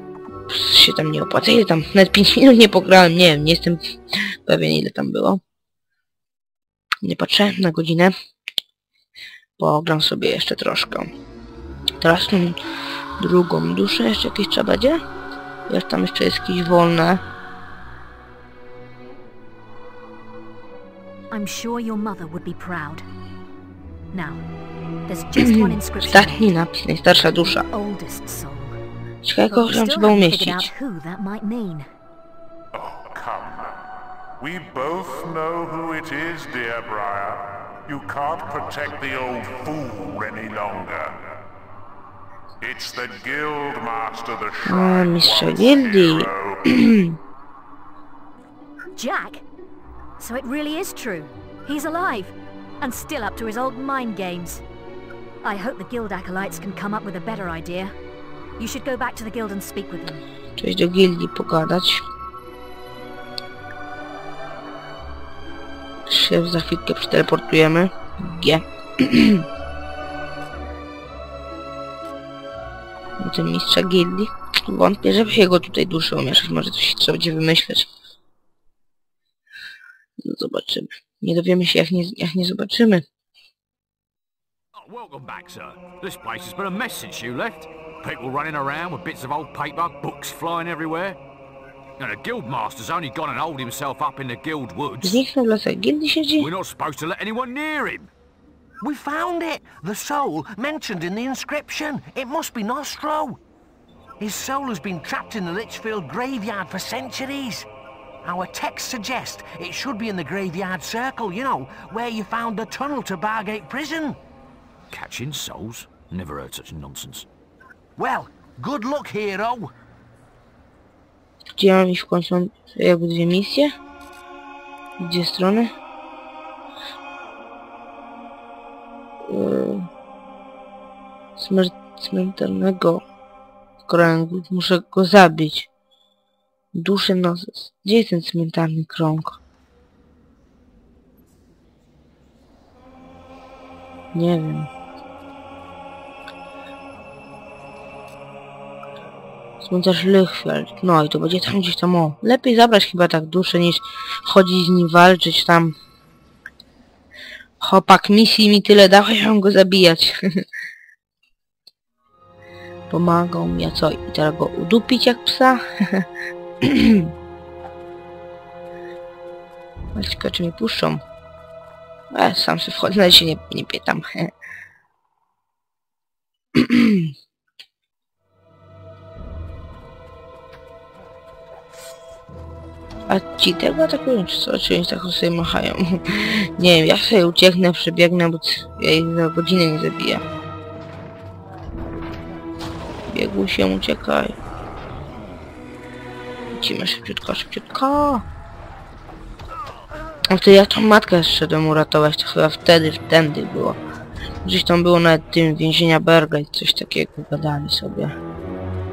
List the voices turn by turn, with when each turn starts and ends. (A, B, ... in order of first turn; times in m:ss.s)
0:00.5-0:05.4 A
0:07.0-0:08.1 A
0:09.6-0:11.1 A
0:12.0-0:12.6 A
0:13.2-0:15.0 A
0:15.7-0:17.2 A
0:21.3-0:23.0 B
0:24.1-0:24.4 B
0:25.1-0:26.4 B
0:25.4-0:27.6 A
0:27.7-0:28.8 B
0:29.2-0:30.7 A
0:29.5-0:31.9 B
0:32.7-0:33.8 C
0:34.4-0:41.3 C
0:42.6-0:46.8 C
0:44.6-0:47.2 A
0:49.0-0:49.4 B
0:50.2-0:54.6 B
0:55.4-0:57.9 B
0:58.6-1:00.2 B
1:00.6-1:02.0 A
1:06.1-1:09.4 A
1:13.2-1:17.9 A
1:20.2-1:23.0 A
1:24.7-1:31.2 D
1:32.0-1:35.2 D
1:35.0-1:36.5 A
1:36.4-1:38.1 D
1:38.8-1:43.4 E
1:44.2-1:47.7 E
1:48.2-1:54.2 E
1:54.9-1:57.3 D
1:58.0-1:59.7 E
2:01.6-2:03.7 A
2:05.0-2:05.7 A
2:09.3-2:09.8 A
2:11.4-2:13.0 A
2:13.8-2:15.7 A
2:16.7-2:19.4 A
2:24.1-2:24.7 A
2:29.6-2:35.7 A
2:37.6-2:40.4 A
2:42.9-2:46.0 A
2:46.6-2:47.1 A
2:49.9-2:51.0 A
2:52.1-2:54.3 A
2:56.5-2:57.1 A
3:03.1-3:10.2 A
3:13.1-3:14.3 A
3:16.5-3:18.2 A
3:20.3-3:23.8 A
3:24.4-3:28.1 A